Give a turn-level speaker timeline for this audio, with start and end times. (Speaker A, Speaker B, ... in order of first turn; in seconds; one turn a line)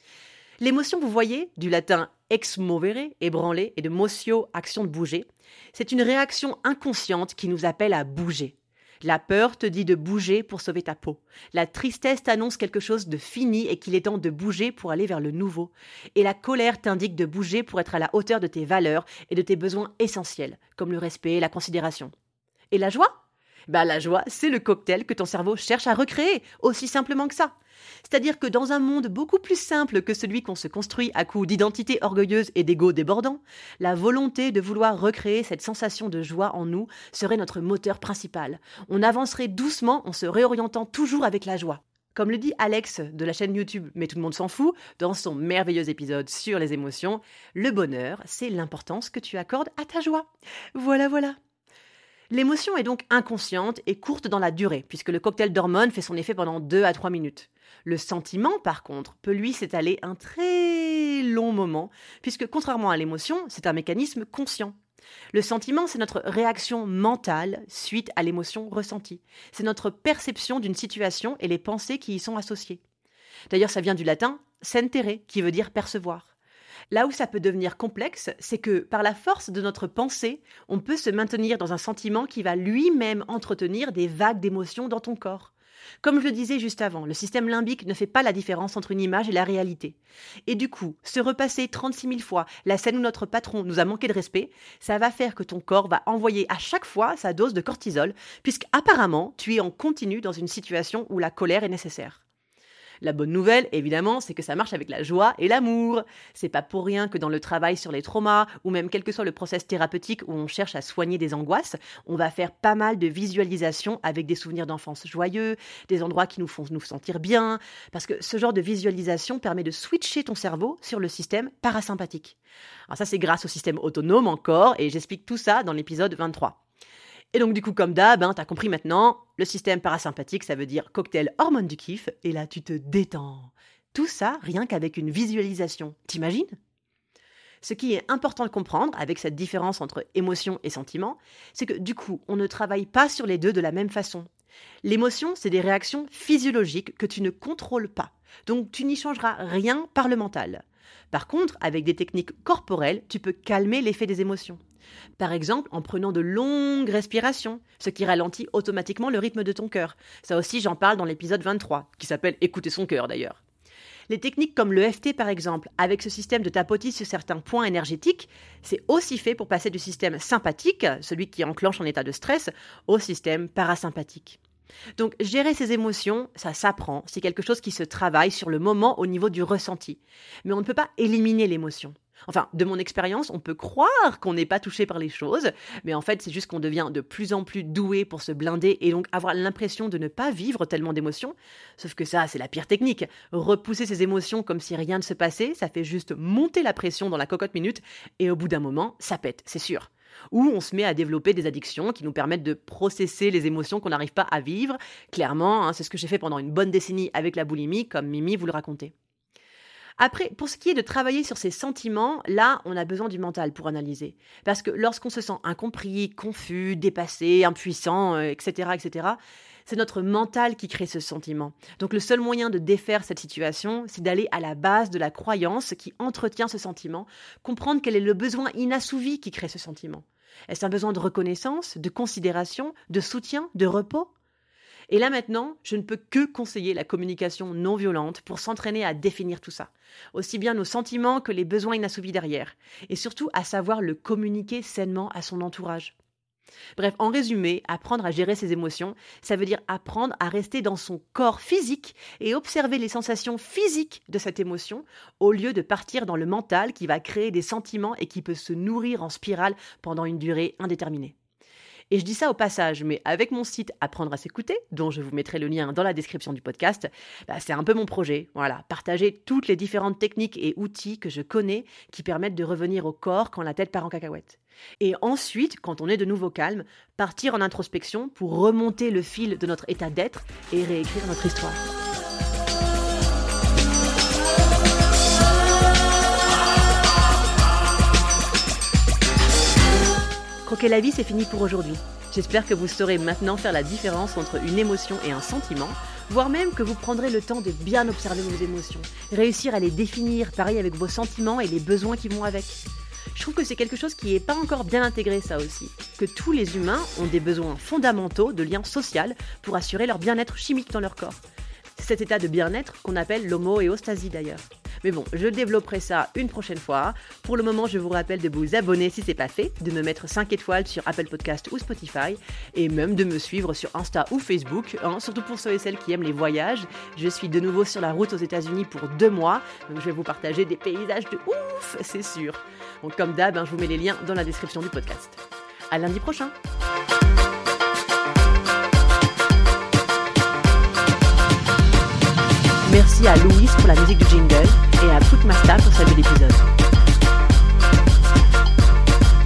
Speaker A: 0.6-22.1
Speaker A: 22.7-23.2
Speaker A: 23.7-27.5
Speaker A: 28.1-51.4
Speaker A: 52.3-64.8
Speaker A: 65.3-72.8
Speaker A: 73.5-76.3
Speaker A: 76.9-102.2
Speaker A: 103.0-122.4
Speaker A: 122.9-126.6
Speaker A: 127.3-136.6
Speaker A: 137.6-144.3
Speaker A: 144.8-154.6
Speaker A: 155.2-163.4
Speaker A: 164.1-174.4
Speaker A: 175.0-208.9
Speaker A: 210.0-234.1
Speaker A: 234.9-245.9
Speaker A: 246.8-261.1
Speaker A: 261.9-281.6
Speaker A: 290.4-302.6
Speaker A: 303.1-311.2
Speaker A: 311.8-336.3
Speaker A: 342.6-346.5